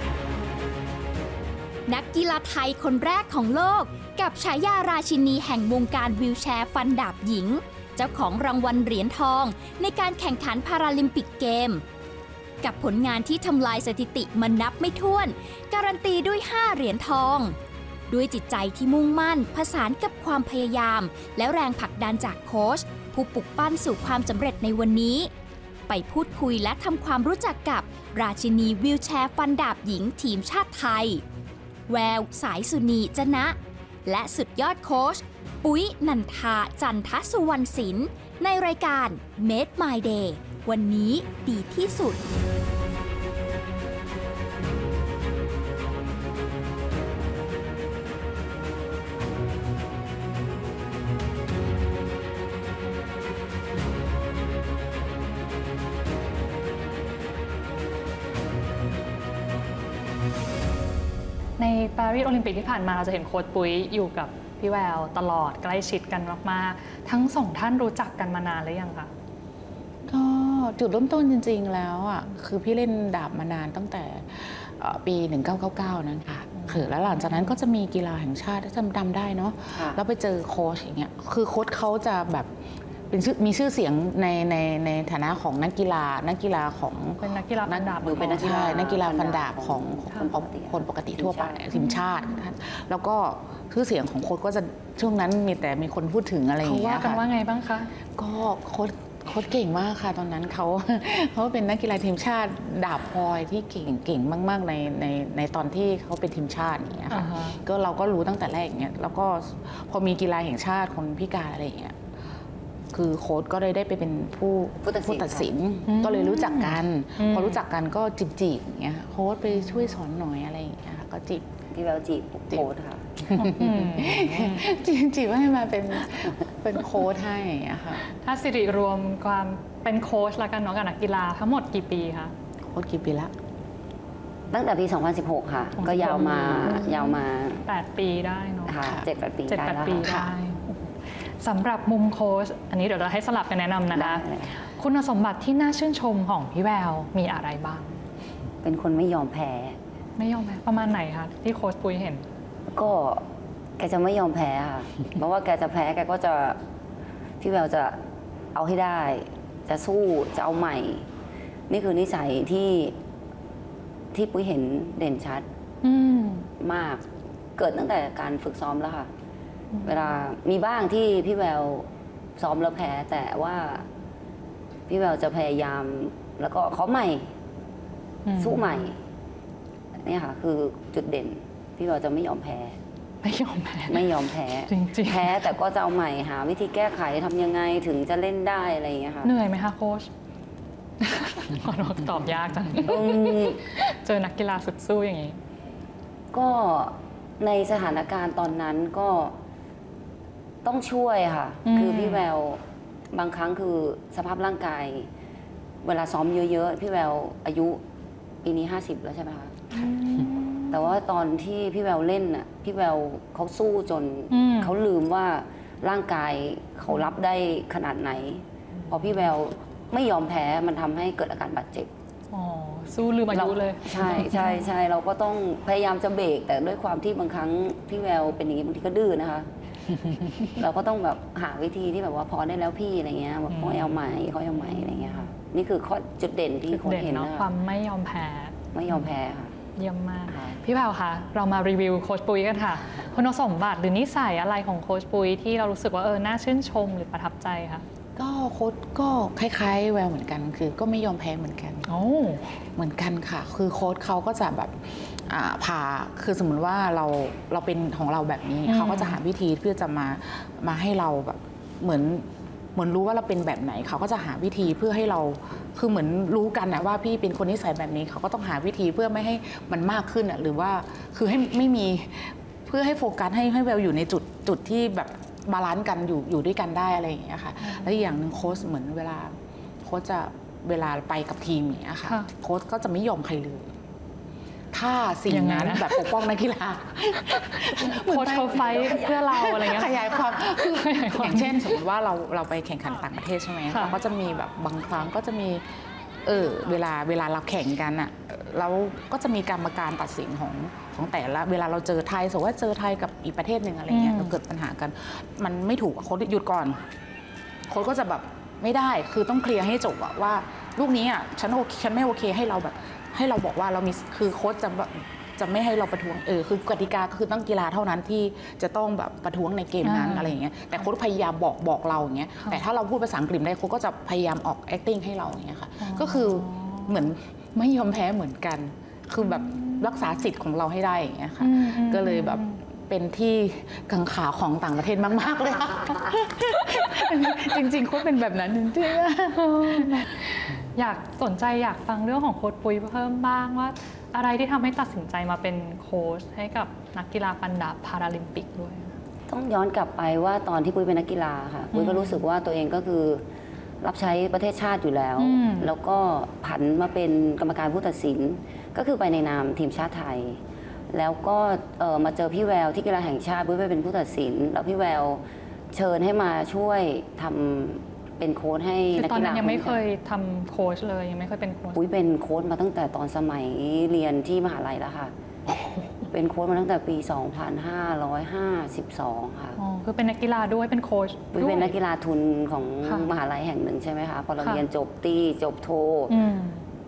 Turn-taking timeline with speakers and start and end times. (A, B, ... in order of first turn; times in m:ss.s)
0:01.9-0:11.8 A
0:12.6-0:17.6 A
0:18.1-0:25.3 A
0:25.9-0:31.2 A
0:31.9-0:42.2 A
1:01.6-1:09.1 B
1:10.1-1:22.5 C
1:16.6-1:17.4 B
1:19.7-1:20.0 D
1:23.1-1:37.2 C
1:27.2-1:28.5 B
1:28.0-1:31.6 D
1:31.7-1:32.4 B
1:36.6-1:37.9 B
1:38.1-1:52.0 C
1:47.1-1:47.6 B
1:52.9-2:01.4 C
1:54.8-1:55.5 D
1:55.9-1:57.6 B
2:01.7-2:03.1 D
2:03.2-2:08.0 C
2:03.3-2:04.7 B
2:08.1-2:12.3 B
2:12.6-2:13.3 C
2:14.5-2:17.6 D
2:15.8-2:18.8 B
2:18.6-2:20.1 D
2:19.5-2:28.0 B
2:20.0-2:20.3 C
2:23.9-2:24.5 D
2:28.6-2:29.8 D
2:30.2-2:32.2 B
2:32.7-2:33.2 D
2:33.8-2:36.6 D
2:37.4-2:38.0 D
2:38.5-2:41.1 D
2:41.7-2:42.9 D
2:44.1-2:45.4 D
2:45.8-2:46.5 B
2:46.6-2:47.0 D
2:47.6-2:49.1 D
2:49.7-2:50.1 B
2:49.8-2:53.8 D
2:54.9-2:57.3 D
2:58.2-2:58.8 B
2:58.4-2:59.0 D
3:00.0-3:02.8 D
3:03.2-3:04.1 B
3:03.9-3:09.3 D
3:04.7-3:05.5 B
3:09.2-3:10.1 B
3:11.0-3:15.4 B
3:12.8-3:13.6 D
3:16.3-3:19.3 D
3:20.6-3:22.6 D
3:21.6-3:22.2 B
3:23.1-3:25.1 D
3:25.8-3:27.8 D
3:28.4-3:29.6 D
3:29.7-3:31.0 B
3:30.7-3:41.9 D
3:34.3-3:34.7 B
3:38.9-3:39.1 B
3:42.3-3:44.7 B
3:43.3-3:49.5 D
3:50.4-3:57.5 D
3:53.5-3:54.0 B
3:54.8-3:55.2 B
3:56.7-3:59.1 B
3:58.7-3:59.5 D
3:59.7-4:07.8 B
4:00.3-4:00.6 D
4:08.2-4:11.9 C
4:11.8-4:12.6 B
4:12.8-4:43.7 C
4:18.6-4:19.2 B
4:37.6-4:38.1 B
4:44.7-4:55.6 C
4:45.3-4:46.1 B
4:47.3-4:51.8 B
4:48.7-4:49.1 D
4:53.7-4:54.0 B
4:56.2-5:06.8 C
5:03.9-5:04.4 B
5:07.7-5:40.1 C
5:19.8-5:20.4 B
5:25.8-5:27.0 B
5:29.3-5:29.9 B
5:31.4-5:32.6 B
5:39.4-5:49.0 B
5:49.3-5:53.2 D
5:51.7-5:52.2 B
5:53.8-6:09.8 D
5:55.2-5:55.7 B
6:08.9-6:11.8 B
6:11.7-6:15.1 D
6:16.1-6:19.6 D
6:19.6-6:21.7 B
6:21.3-6:26.2 D
6:22.8-6:23.1 B
6:26.1-6:26.6 B